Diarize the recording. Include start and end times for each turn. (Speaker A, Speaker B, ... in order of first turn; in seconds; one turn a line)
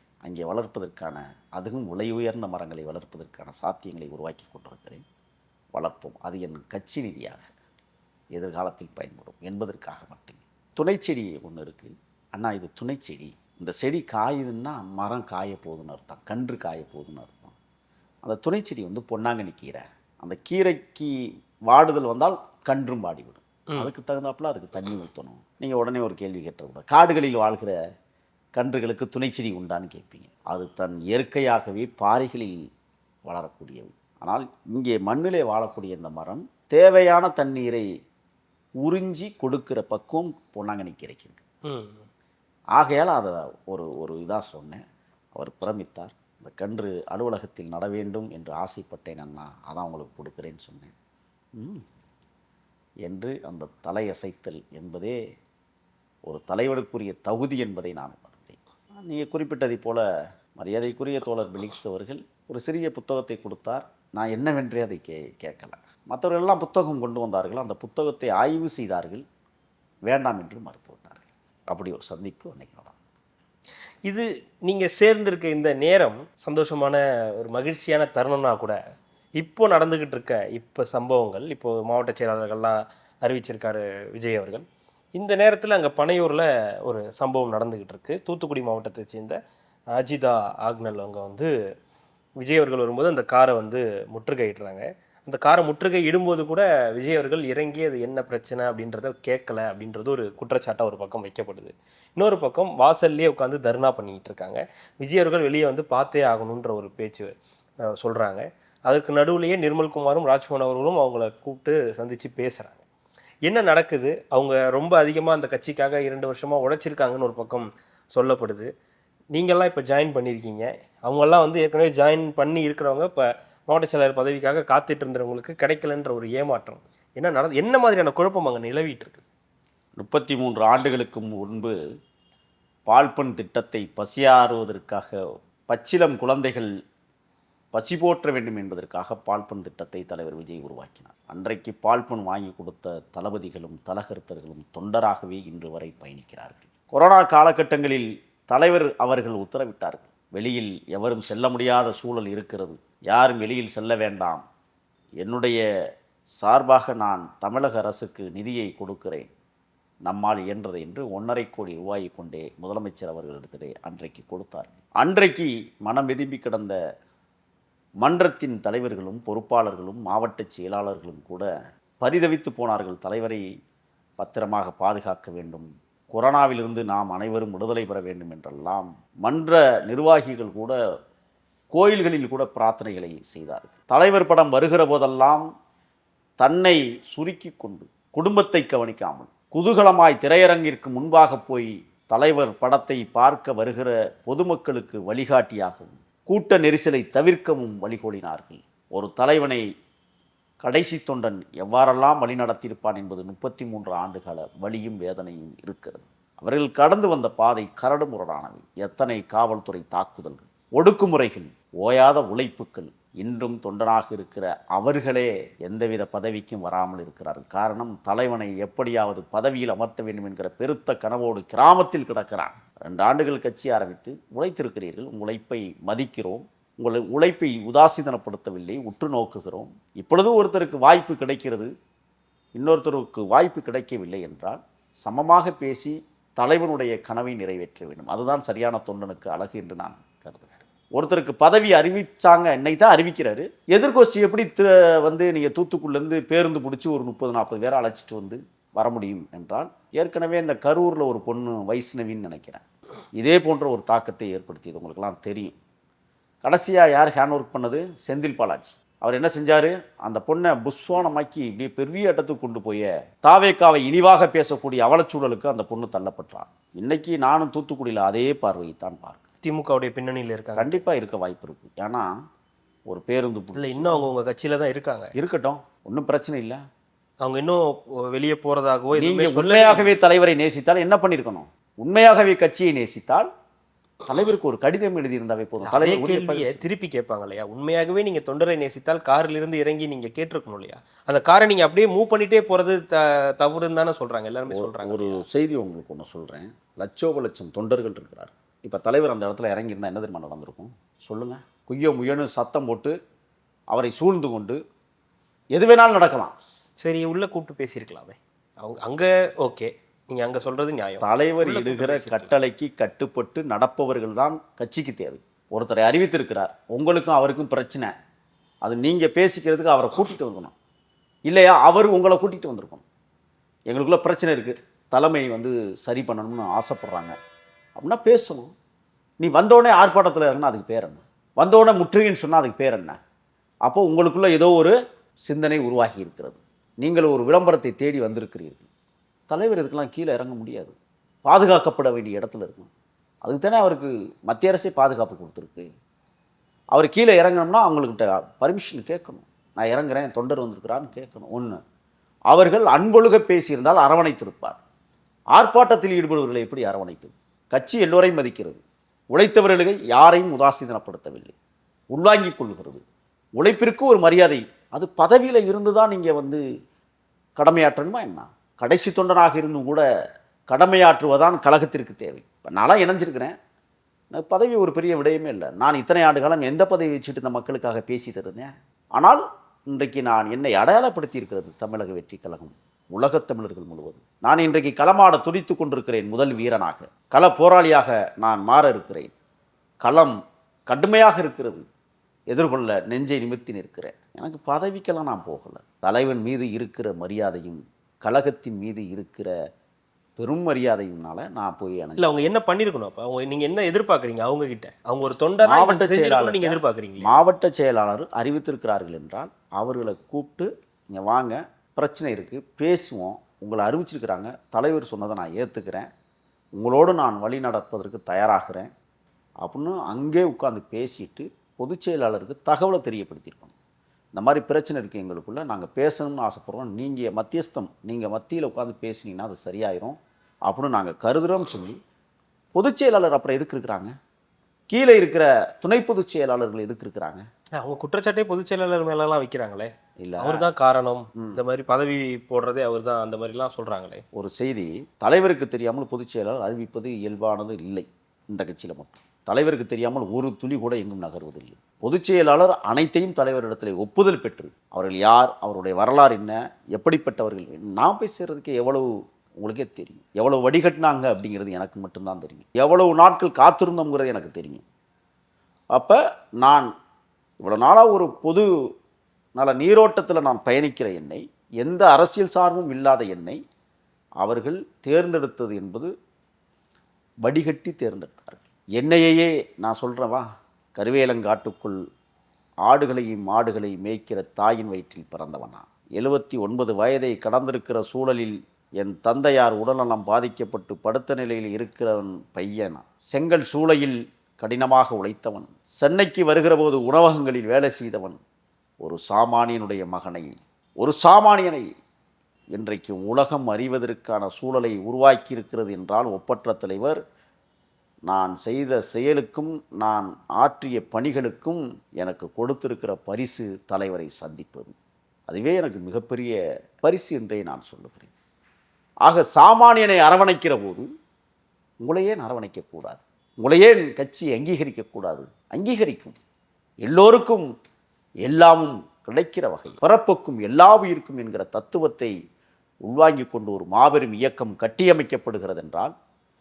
Speaker A: 0.2-5.0
Speaker A: 5.7-7.5
Speaker A: 8.3-17.6
Speaker A: 18.2-27.8
Speaker A: 28.6-32.6
Speaker A: 33.3-37.9
Speaker A: 38.8-41.4
Speaker B: 41.7-42.1
Speaker A: 42.8-44.8
Speaker A: 45.4-50.9
Speaker A: 51.6-51.9
Speaker A: 53.0-55.2
Speaker A: 56.3-60.0
Speaker A: 60.6-69.2
Speaker A: 70.1-73.0
Speaker B: 74.1-78.8
Speaker B: 79.4-89.4
Speaker B: 89.9-91.5
Speaker B: 92.4-107.3
Speaker B: 107.9-112.8
Speaker B: 113.5-118.7
Speaker B: 119.3-129.2
Speaker A: 130.0-131.7
Speaker A: 132.9-136.7
Speaker A: 137.7-154.4
Speaker A: 155.2-155.6
Speaker A: 156.4-159.3
Speaker A: 160.1-166.8
Speaker A: 168.0-171.5
Speaker A: 172.0-173.4
Speaker A: 174.2-180.8
Speaker A: 181.7-185.5
Speaker A: 186.4-199.6
Speaker A: 200.6-231.7
Speaker A: 232.6-252.6
Speaker A: 253.2-255.6
Speaker A: 256.4-269.2
Speaker B: 269.4-270.8
Speaker A: 270.6-272.1
Speaker A: 272.9-274.1
Speaker B: 273.6-275.1
Speaker A: 275.1-276.6
Speaker B: 277.2-279.9
Speaker A: 278.9-283.3
Speaker A: 284.1-286.7
Speaker B: 285.6-295.2
Speaker A: 294.5-303.0
Speaker A: 303.7-304.6
Speaker A: 305.5-306.4
Speaker B: 306.8-312.3
Speaker A: 311.0-317.9
Speaker A: 318.6-320.5
Speaker A: 321.3-322.9
Speaker A: 323.7-327.2
Speaker A: 327.8-328.5
Speaker A: 329.2-333.0
Speaker A: 333.6-334.8
Speaker A: 335.3-338.7
Speaker A: 339.3-342.7
Speaker A: 343.2-345.7
Speaker A: 346.7-351.6
Speaker A: 352.3-354.6
Speaker A: 355.3-358.6
Speaker A: 359.1-361.3
Speaker A: 361.9-362.8
Speaker A: 363.4-366.4
Speaker A: 367.4-369.8
Speaker A: 370.5-373.4
Speaker A: 374.1-389.1
Speaker A: 389.8-390.2
Speaker A: 390.7-391.7
Speaker A: 392.3-399.3
Speaker A: 400.2-402.1
Speaker B: 402.0-407.1
Speaker A: 405.4-415.9
Speaker A: 416.6-418.7
Speaker A: 419.4-423.6
Speaker A: 424.1-431.8
Speaker A: 432.5-433.9
Speaker A: 434.7-437.3
Speaker B: 437.6-444.0
Speaker A: 440.0-440.5
Speaker A: 441.1-441.4
Speaker A: 444.1-458.9
Speaker A: 459.4-464.6
Speaker A: 465.7-466.7
Speaker A: 467.4-468.5
Speaker A: 469.4-473.4
Speaker A: 474.2-475.9
Speaker A: 477.2-481.8
Speaker A: 482.6-498.2
Speaker A: 498.8-501.7
Speaker A: 502.5-507.0
Speaker A: 508.1-514.8
Speaker A: 515.3-518.1
Speaker A: 519.0-520.9
Speaker A: 521.8-526.2
Speaker A: 526.8-527.5
Speaker A: 528.2-532.1
Speaker A: 532.9-535.9